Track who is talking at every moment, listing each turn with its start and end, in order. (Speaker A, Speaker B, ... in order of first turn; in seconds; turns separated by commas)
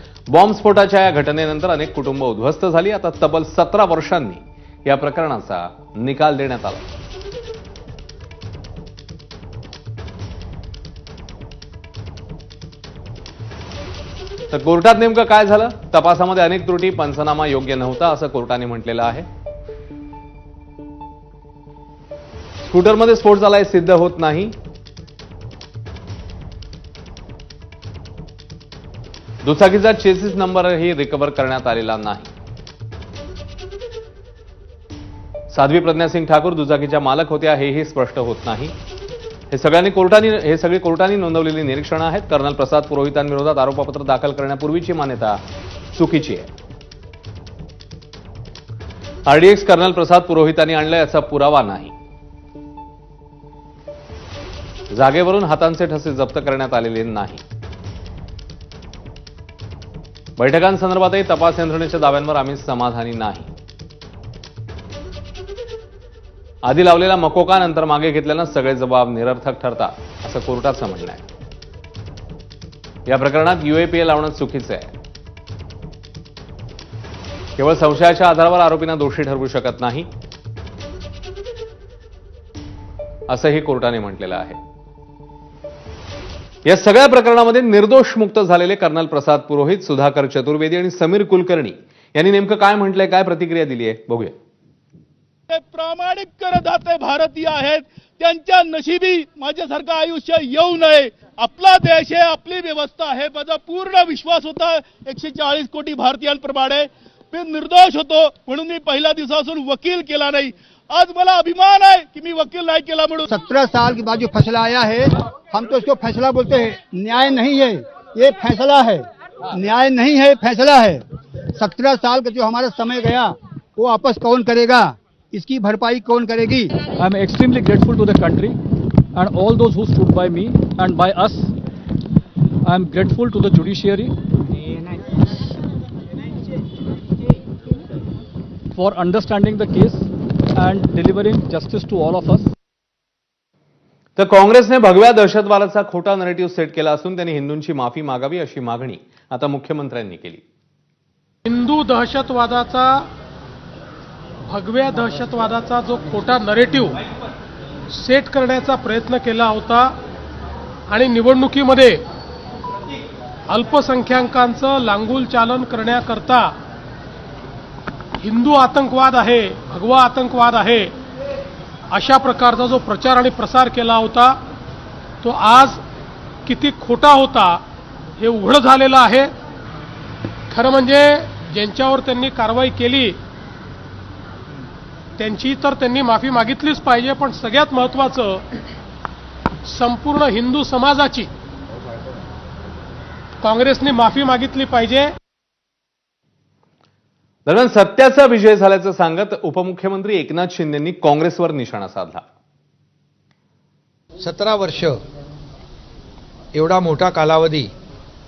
Speaker A: 0.3-6.8, Speaker A: 14.5-19.2, Speaker A: 22.6-24.5, Speaker A: 29.4-32.3, Speaker A: 35.5-38.7, Speaker A: 39.5-45.4, Speaker A: 45.9-46.5, Speaker A: 49.3-51.9, Speaker A: 54.9-57.4, Speaker A: 60.4-63.5, Speaker A: 66.6-71.2, Speaker A: 73.1-74.9, Speaker A: 77.6-80.1, Speaker A: 83.3-84.6, Speaker A: 86.7-94.3, Speaker B: 95.5-113.2, Speaker C: 113.2-121.0, Speaker C: 121.6-126.7, Speaker D: 127.0-128.6, Speaker D: 129.1-131.5, Speaker D: 132.6-134.1, Speaker D: 138.7-142.5, Speaker A: 144.2-150.4, Speaker E: 151.4-152.9, Speaker E: 154.5-157.0, Speaker E: 157.9-159.9, Speaker E: 160.9-162.0, Speaker E: 163.5-166.5, Speaker E: 168.2-170.9, Speaker E: 171.9-174.4, Speaker E: 175.2-175.8, Speaker E: 176.4-177.6, Speaker E: 178.2-179.3, Speaker E: 180.5-183.2, Speaker E: 185.2-188.4, Speaker E: 189.7-191.3, Speaker E: 193.4-195.1, Speaker A: 197.4-202.2, Speaker F: 204.2-205.0, Speaker F: 206.5-207.7